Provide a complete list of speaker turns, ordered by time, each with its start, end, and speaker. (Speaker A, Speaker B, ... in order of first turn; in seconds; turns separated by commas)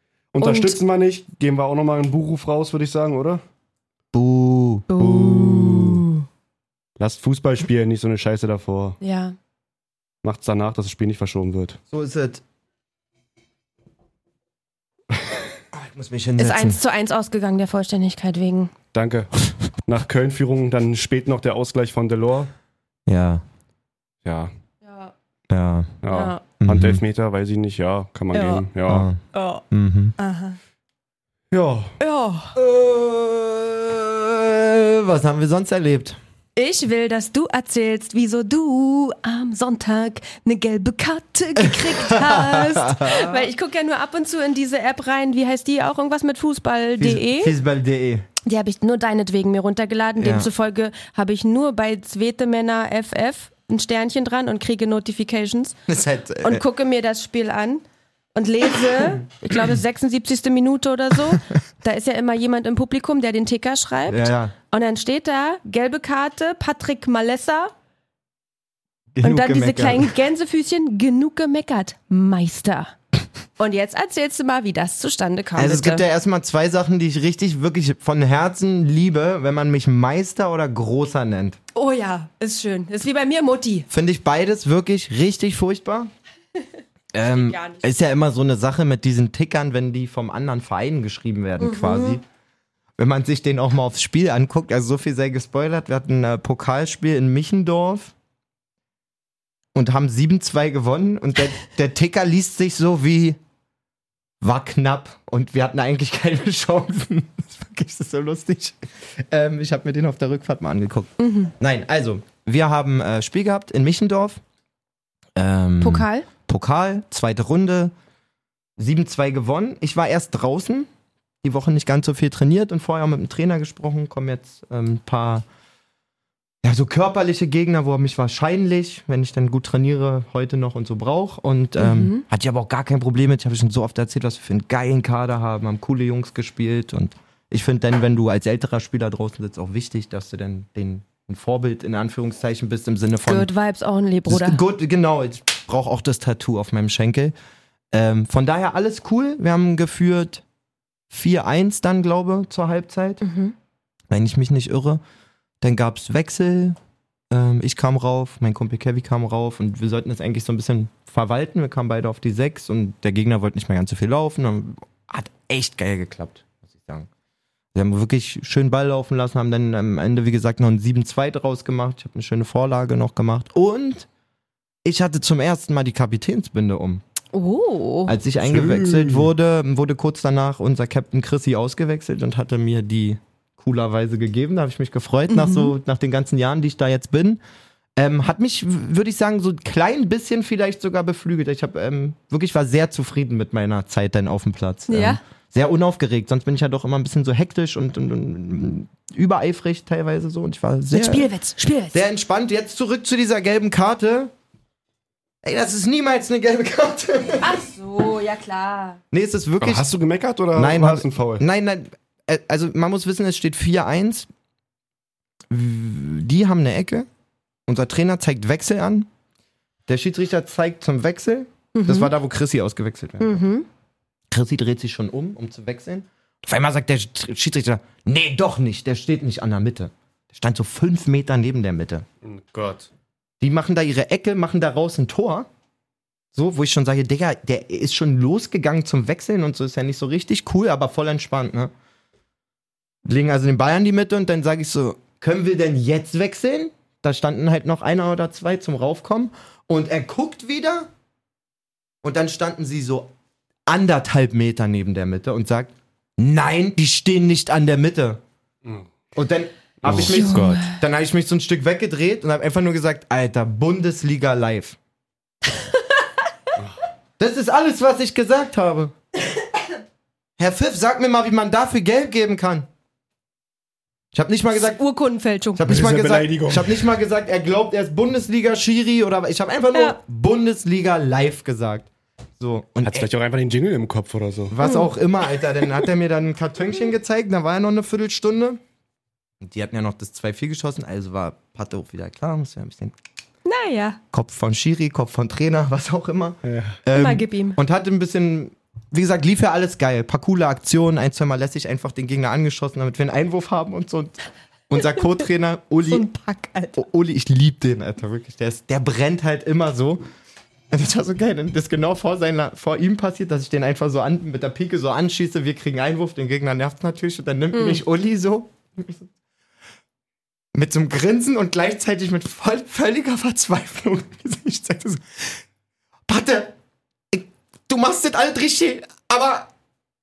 Speaker A: 0.3-3.4, Speaker B: 0.4-0.8, Speaker C: 4.1-6.0, Speaker B: 4.9-6.2, Speaker A: 7.0-9.0, Speaker B: 9.0-9.3, Speaker A: 10.2-11.8, Speaker C: 11.9-12.4, Speaker C: 15.7-16.8, Speaker B: 16.4-18.7, Speaker A: 18.9-22.5, Speaker C: 23.1-23.4, Speaker A: 24.2-24.5, Speaker B: 24.8-25.1, Speaker C: 25.5-26.0, Speaker A: 26.0-29.1, Speaker B: 26.1-26.4, Speaker C: 26.6-27.0, Speaker B: 28.3-28.6, Speaker C: 28.9-29.2, Speaker B: 29.3-29.6, Speaker C: 29.7-30.1, Speaker B: 30.2-30.6, Speaker A: 31.5-31.9, Speaker B: 32.0-32.5, Speaker C: 32.5-36.2, Speaker B: 36.5-47.5, Speaker C: 41.6-43.5, Speaker C: 47.0-48.2, Speaker B: 48.4-55.8, Speaker C: 50.2-50.5, Speaker C: 55.9-56.6, Speaker B: 56.4-57.8, Speaker B: 58.3-67.7, Speaker C: 64.1-64.5, Speaker C: 69.1-70.1, Speaker B: 69.2-72.9, Speaker B: 73.6-76.0, Speaker C: 75.6-81.6, Speaker B: 81.7-83.9, Speaker C: 83.9-86.1, Speaker C: 87.1-92.2, Speaker B: 87.3-87.8, Speaker B: 91.6-92.2, Speaker C: 93.0-98.1, Speaker C: 99.7-103.4, Speaker C: 104.4-114.4, Speaker B: 111.2-111.5, Speaker C: 115.3-117.9, Speaker B: 115.8-116.3, Speaker C: 118.8-120.9, Speaker C: 121.4-125.4, Speaker C: 126.6-143.5, Speaker B: 131.8-132.2, Speaker B: 143.2-144.6, Speaker C: 144.3-147.3, Speaker C: 147.9-150.4, Speaker C: 151.1-153.2, Speaker B: 153.2-153.5, Speaker C: 154.1-155.0, Speaker C: 155.6-156.8, Speaker C: 157.3-167.1, Speaker C: 167.7-174.1, Speaker C: 174.8-177.0, Speaker B: 177.3-178.2, Speaker C: 178.1-187.4, Speaker A: 178.4-179.3, Speaker B: 185.3-185.7, Speaker C: 188.0-201.3, Speaker B: 194.9-195.2, Speaker B: 200.9-202.0, Speaker C: 201.9-204.3, Speaker C: 205.4-207.6, Speaker B: 207.4-209.0, Speaker C: 209.1-209.9, Speaker A: 209.6-211.4, Speaker C: 210.5-214.3, Speaker C: 215.5-217.1, Speaker C: 217.7-219.1, Speaker C: 219.9-223.4, Speaker B: 221.7-222.1, Speaker B: 223.2-223.7, Speaker C: 224.3-232.1, Speaker A: 232.2-232.9, Speaker C: 233.4-235.5, Speaker C: 236.3-241.7, Speaker C: 243.0-250.9, Speaker C: 252.0-253.1, Speaker C: 253.7-258.2, Speaker C: 259.1-264.8, Speaker A: 259.8-260.6, Speaker B: 259.9-260.8, Speaker B: 265.6-266.0, Speaker C: 267.2-268.9, Speaker C: 270.4-272.7, Speaker C: 274.1-274.8, Speaker B: 274.6-275.7, Speaker C: 275.6-283.1, Speaker A: 275.6-276.9, Speaker A: 282.8-284.6, Speaker C: 284.5-288.6, Speaker B: 284.6-284.9, Speaker C: 289.4-292.9, Speaker B: 293.4-294.0, Speaker C: 294.1-304.2, Speaker A: 296.4-296.8, Speaker B: 296.9-297.6, Speaker C: 304.7-306.1, Speaker B: 305.8-306.8, Speaker C: 306.8-310.0, Speaker C: 310.7-319.1, Speaker B: 317.5-317.8, Speaker C: 320.5-325.4, Speaker C: 326.1-326.5, Speaker C: 327.1-329.5